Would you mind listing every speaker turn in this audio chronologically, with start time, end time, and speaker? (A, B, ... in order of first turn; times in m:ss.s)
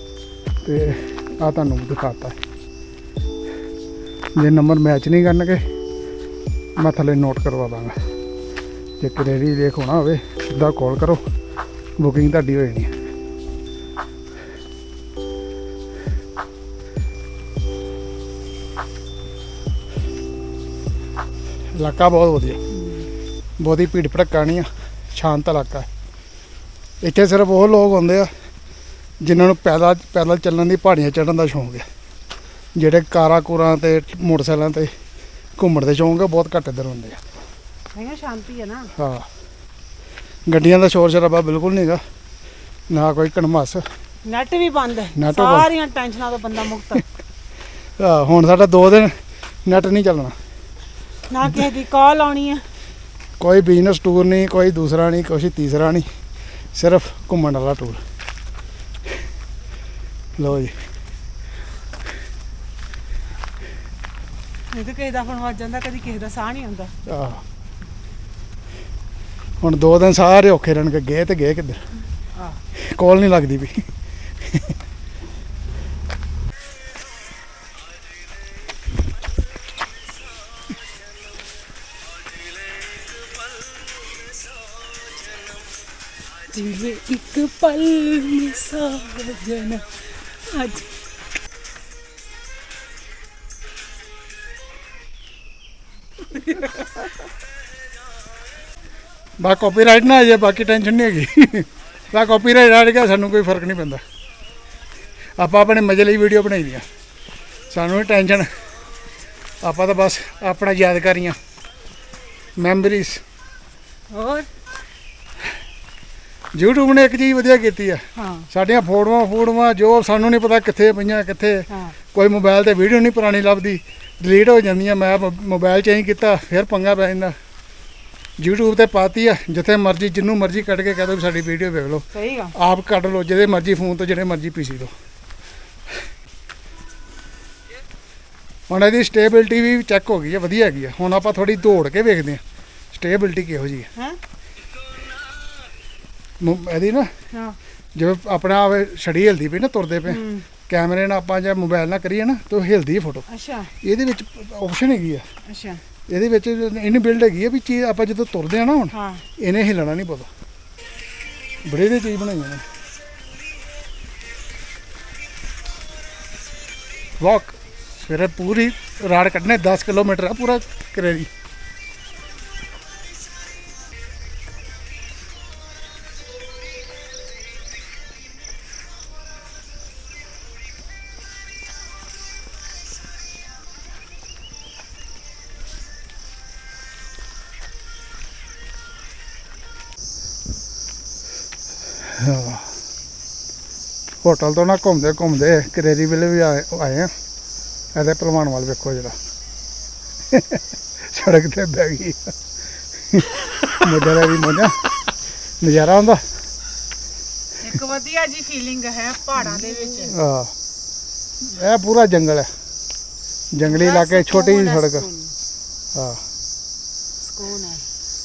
0:00.6-0:02.4 A
0:04.4-0:05.6 A
0:06.8-0:07.9 A
0:09.0-0:11.2 A
0:12.0-0:12.9 A
0:21.7-0:22.6 A
0:22.7-0:23.0 B
0:23.6-0:25.9 A
0:27.0-0:28.3 A
0:29.2-0:31.8 A
0:32.8-0:34.9 A
0:35.6-0:37.2 A
0:37.9-0:38.9 B
0:38.9-0:39.3 A
0:40.5-0:42.0 A
0:42.9-0:43.8 A
0:44.2-0:47.0 B
0:45.1-0:45.7 A
0:48.0-0:50.4 A
0:51.3-0:52.6 B
0:53.4-0:56.1 A
0:56.7-0:58.0 A
1:00.4-1:00.7 A
1:04.7-1:06.9 B
1:07.0-1:07.4 A
1:09.6-1:11.8 A
1:12.3-1:12.6 B
1:12.8-1:13.9 A
1:14.4-1:14.7 A
1:26.5-1:31.0 B
1:36.3-1:36.9 B
1:39.4-1:44.0 A
1:45.4-1:46.8 A
1:47.7-1:48.5 A
1:49.6-1:51.4 A
1:52.6-1:53.2 A
1:54.1-1:54.5 B
1:56.5-2:07.3 A
1:58.2-1:58.5 B
2:01.7-2:01.9 B
2:08.4-2:14.9 A
2:12.1-2:12.5 B
2:18.7-2:23.9 A
2:26.4-2:27.1 A
2:27.3-2:27.6 B
2:27.9-2:33.2 A
2:30.1-2:30.4 B
2:33.3-2:33.7 B
2:33.8-2:35.3 A
2:35.4-2:35.8 B
2:36.1-2:40.3 A
2:38.9-2:39.2 B
2:41.6-2:42.6 A
2:47.2-2:51.3 A
3:12.0-3:12.7 A
3:14.2-3:17.1 A
3:17.9-3:19.2 A
3:20.3-3:22.4 A
3:23.1-3:24.9 A
3:25.6-3:26.2 A
3:27.6-3:30.2 B
3:30.0-3:30.5 A
3:31.4-3:32.5 A
3:33.5-3:35.1 A
3:33.6-3:35.3 B
3:35.9-3:36.2 A
3:37.2-3:37.8 B